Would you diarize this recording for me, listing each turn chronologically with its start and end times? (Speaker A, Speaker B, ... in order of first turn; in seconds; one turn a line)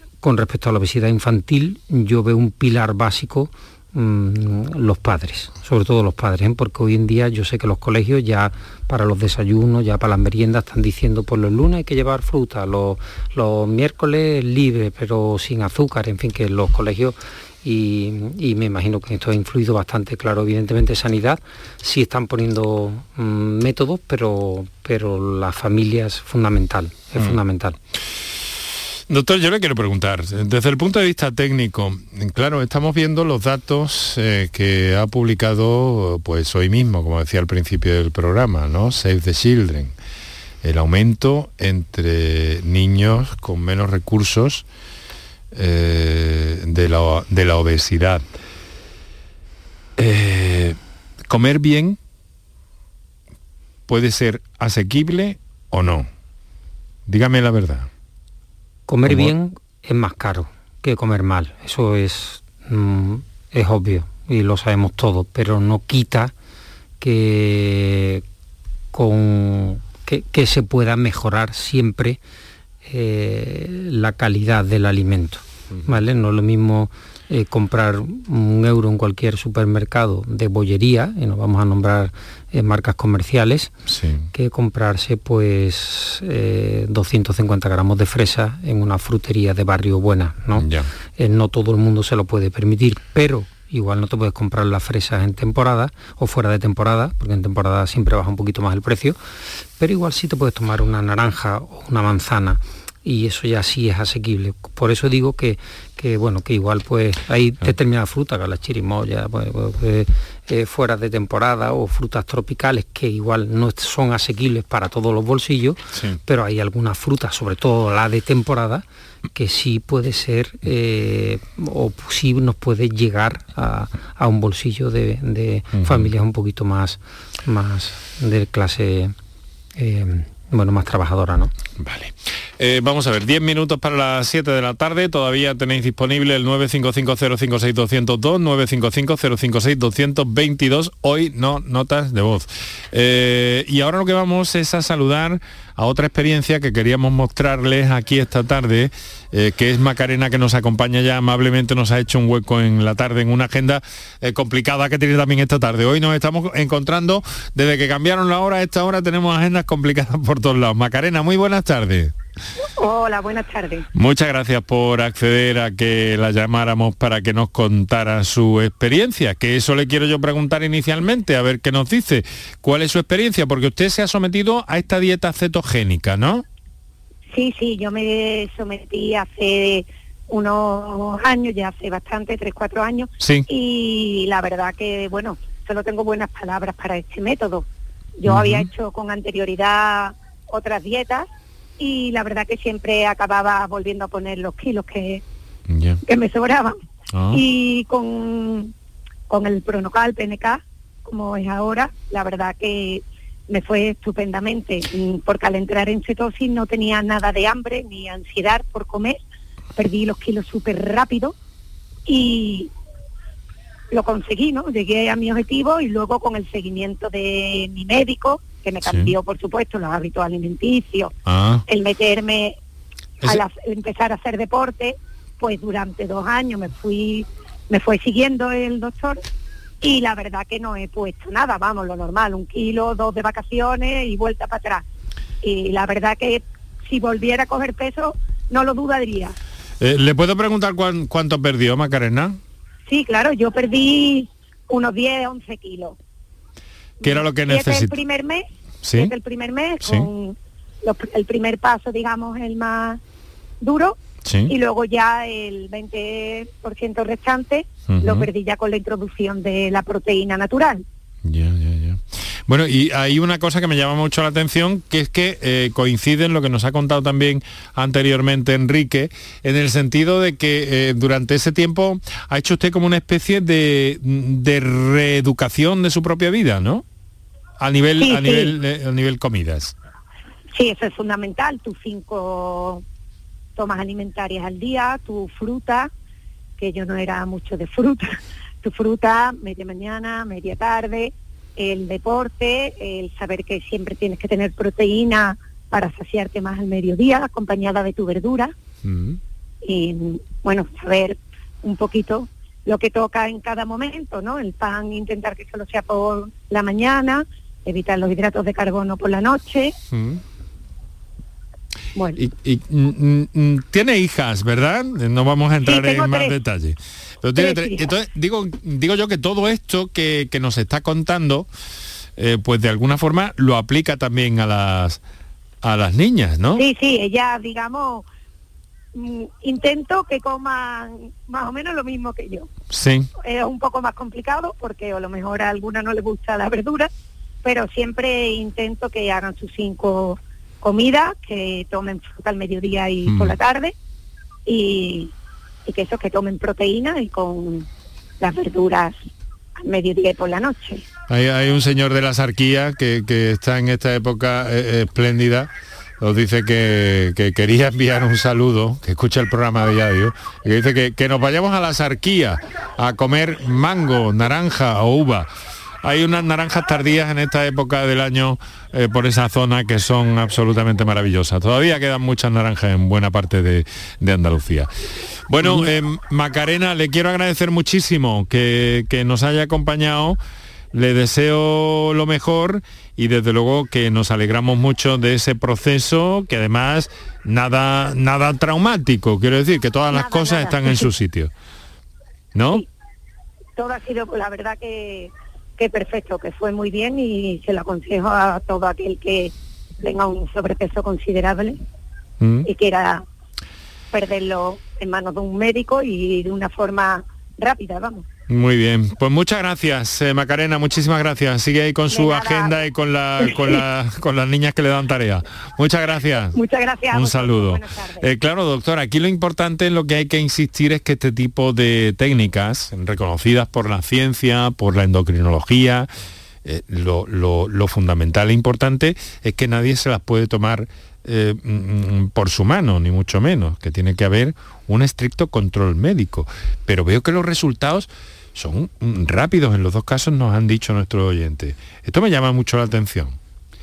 Speaker A: 0.2-27.8
Speaker B: 29.1-39.9
Speaker B: 40.6-44.6
Speaker B: 45.5-48.2
Speaker B: 50.0-50.8
Speaker B: 51.3-52.0
Speaker B: 53.9-56.1
Speaker B: 57.1-57.9
Speaker A: 58.9-66.3
Speaker A: 67.0-68.2
Speaker A: 68.9-72.2
Speaker A: 72.8-83.7
Speaker B: 83.9-84.2
Speaker A: 84.3-99.2
Speaker B: 90.5-90.9
Speaker A: 99.8-118.8
Speaker A: 119.3-129.1
Speaker B: 125.8-126.1
Speaker A: 129.8-131.5
Speaker B: 131.8-162.1
Speaker C: 162.8-163.8
Speaker B: 163.9-176.4
Speaker C: 177.3-187.7
Speaker B: 183.2-183.5
Speaker C: 188.2-191.3
Speaker B: 188.2-188.7
Speaker C: 191.8-195.2
Speaker B: 195.7-196.0
Speaker C: 196.1-196.8
Speaker B: 197.1-197.4
Speaker C: 197.3-198.7
Speaker C: 199.3-209.2
Speaker C: 209.8-211.3
Speaker C: 212.1-212.7
Speaker C: 213.9-221.1
Speaker B: 218.8-219.1
Speaker B: 221.3-221.6
Speaker C: 221.7-222.6
Speaker C: 223.2-229.2
Speaker C: 229.8-234.8
Speaker C: 235.4-239.3
Speaker B: 239.8-242.4
Speaker C: 242.9-246.0
Speaker C: 247.0-248.4
Speaker B: 247.0-247.9
Speaker B: 248.8-249.1
Speaker C: 248.9-253.0
Speaker B: 249.8-250.1
Speaker C: 253.6-260.8
Speaker B: 254.2-254.5
Speaker B: 257.9-258.3
Speaker B: 261.2-276.8
Speaker B: 277.6-279.7
Speaker C: 278.0-278.5
Speaker C: 280.5-282.8
Speaker C: 283.6-285.9
Speaker C: 286.6-298.5
Speaker B: 298.8-299.2
Speaker C: 299.6-309.7
Speaker B: 309.9-310.2
Speaker B: 312.1-321.5
Speaker C: 315.6-316.3
Speaker C: 317.4-317.9
Speaker B: 322.2-325.0
Speaker B: 325.6-326.6
Speaker C: 326.6-328.0
Speaker C: 328.9-332.5
Speaker B: 332.7-333.1
Speaker C: 333.2-336.9
Speaker C: 337.4-343.7
Speaker B: 343.1-343.4
Speaker C: 344.4-345.1
Speaker C: 345.6-347.7
Speaker C: 348.2-348.9
Speaker C: 349.6-350.8
Speaker B: 351.1-355.5
Speaker B: 356.0-365.3
Speaker B: 365.8-374.7
Speaker B: 375.3-380.2
Speaker B: 380.7-391.3
Speaker C: 389.9-390.9
Speaker B: 392.3-392.6
Speaker C: 393.6-401.6
Speaker B: 402.2-402.5
Speaker C: 402.4-403.0
Speaker C: 403.9-408.0
Speaker B: 408.3-416.4
Speaker C: 411.9-412.6
Speaker C: 413.2-413.6
Speaker C: 416.3-418.1
Speaker B: 416.9-425.9
Speaker B: 426.4-443.1